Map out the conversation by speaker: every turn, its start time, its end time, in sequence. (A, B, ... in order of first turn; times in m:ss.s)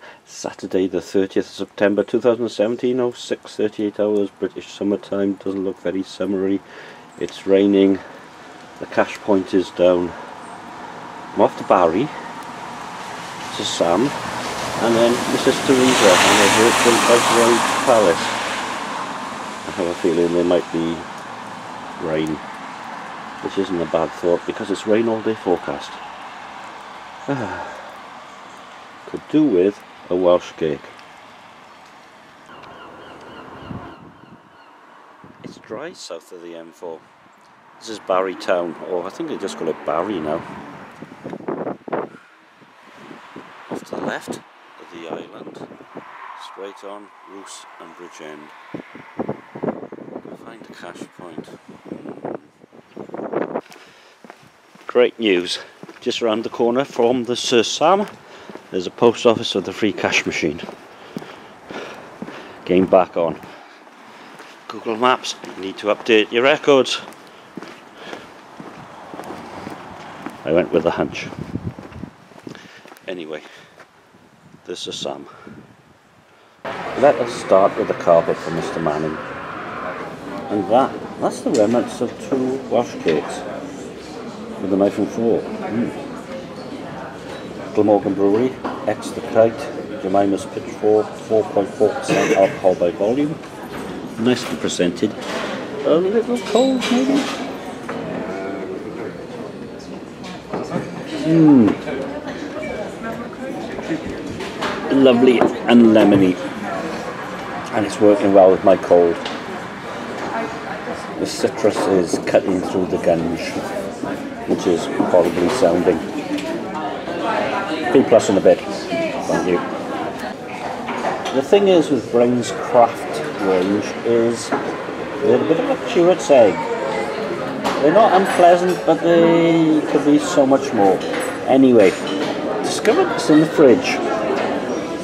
0:00.2-0:06.6 A
0:07.2-0:08.0 A
0:08.8-0:10.2 A
0:11.3-0:12.1 A
0:13.5-0:14.2 A
0:14.8-0:18.4 A
0:19.6-0:21.1 A
0:22.0-0:22.4 A
0:23.4-0:26.0 A
0:27.3-0:27.9 A
0:29.1-0:30.9 A
0:35.4-0:37.0 A
0:37.8-0:40.4 A
0:43.7-0:45.7 A
0:46.4-0:48.5 A
0:50.2-0:52.5 A
0:54.9-0:58.1 A
0:58.7-1:00.6 A
1:02.6-1:03.4 A
1:04.7-1:07.1 A
1:10.4-1:11.3 A
1:13.1-1:13.5 A
1:14.6-1:15.3 A
1:17.0-1:19.2 A
1:20.5-1:23.4 A
1:24.6-1:26.0 A
1:27.7-1:33.4 A
1:34.2-1:35.2 A
1:35.8-1:37.3 A
1:41.2-1:41.8 A
1:44.9-1:46.4 A
1:47.7-1:49.2 A
1:51.2-1:53.6 A
1:54.5-1:56.0 A
1:57.9-1:58.7 A
1:59.3-1:59.6 A
2:01.3-2:04.5 A
2:05.2-2:06.6 A
2:07.8-2:12.0 A
2:12.6-2:14.0 A